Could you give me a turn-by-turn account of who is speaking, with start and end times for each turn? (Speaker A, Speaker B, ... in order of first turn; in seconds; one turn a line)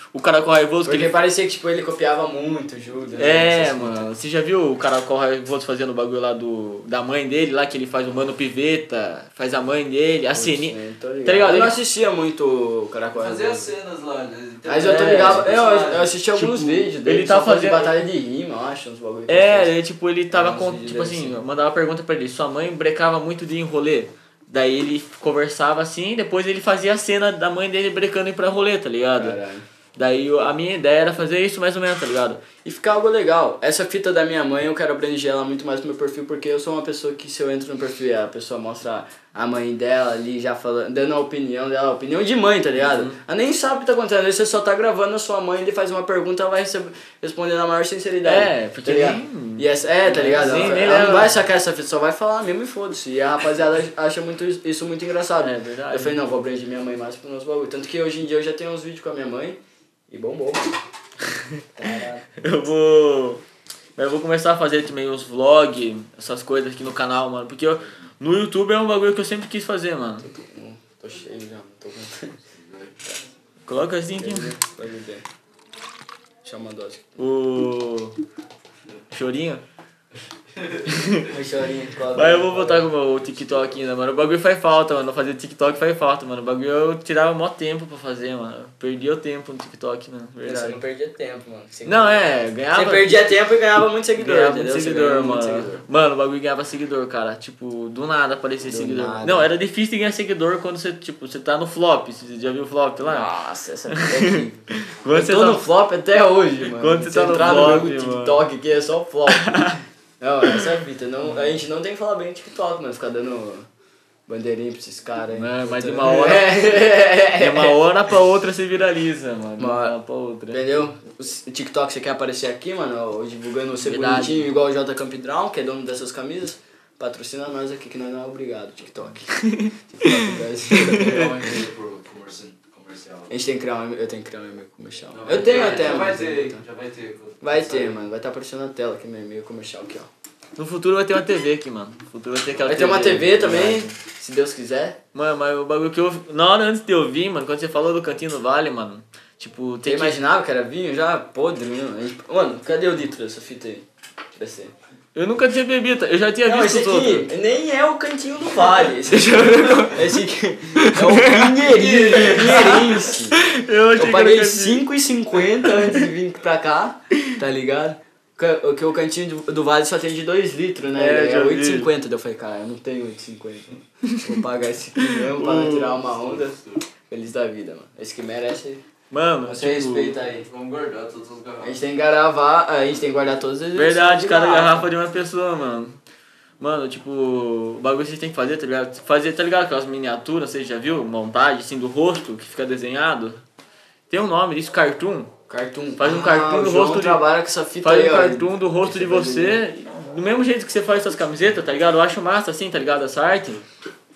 Speaker A: 0.1-1.1
Speaker B: 0.9-4.1
Speaker A: 3.2-11.8
Speaker B: 10.3-13.7
Speaker C: 13.2-16.1
Speaker B: 14.7-19.7
Speaker A: 14.8-15.5
Speaker A: 16.4-18.0
Speaker A: 19.3-29.4
Speaker B: 20.3-21.4
Speaker B: 29.2-29.7
Speaker A: 30.0-32.4
Speaker B: 32.6-60.8
Speaker A: 42.9-43.2
Speaker A: 48.2-51.4
Speaker A: 55.4-56.2
Speaker B: 61.7-62.3
Speaker A: 62.4-63.4
Speaker A: 64.0-70.3
Speaker B: 70.2-72.4
Speaker C: 72.5-73.1
Speaker A: 73.7-74.5
Speaker B: 74.1-75.2
Speaker B: 76.4-77.3
Speaker A: 77.2-78.2
Speaker A: 79.1-79.6
Speaker C: 80.5-80.9
Speaker A: 80.9-81.3
Speaker B: 81.2-82.9
Speaker A: 82.1-90.8
Speaker C: 83.3-83.7
Speaker B: 90.4-95.8
Speaker A: 91.9-93.1
Speaker A: 94.2-103.3
Speaker B: 98.7-99.5
Speaker B: 103.0-109.7
Speaker A: 103.9-105.6
Speaker A: 106.6-108.4
Speaker A: 109.3-109.8
Speaker B: 110.2-113.7
Speaker B: 114.3-117.8
Speaker A: 115.3-120.6
Speaker B: 119.6-120.0
Speaker B: 120.5-131.4
Speaker A: 123.8-124.5
Speaker A: 129.4-131.4
Speaker C: 130.8-133.3
Speaker B: 133.3-136.6
Speaker C: 135.1-138.0
Speaker A: 135.5-136.1
Speaker B: 137.4-140.1
Speaker A: 140.6-143.9
Speaker B: 142.6-145.0
Speaker A: 145.1-150.2
Speaker B: 149.8-154.7
Speaker A: 155.2-157.3
Speaker B: 156.4-163.4
Speaker A: 158.8-160.2
Speaker A: 160.8-164.8
Speaker B: 163.9-176.6
Speaker A: 165.6-166.1
Speaker A: 170.9-171.9
Speaker A: 174.1-174.4
Speaker A: 175.0-176.0
Speaker C: 176.0-176.8
Speaker B: 177.1-178.8
Speaker A: 179.1-180.2
Speaker B: 179.5-180.5
Speaker C: 180.3-181.8
Speaker B: 181.6-184.9
Speaker A: 183.7-186.0
Speaker A: 186.6-193.4
Speaker A: 194.1-195.3
Speaker B: 195.5-199.6
Speaker A: 196.0-197.3
Speaker A: 197.8-203.6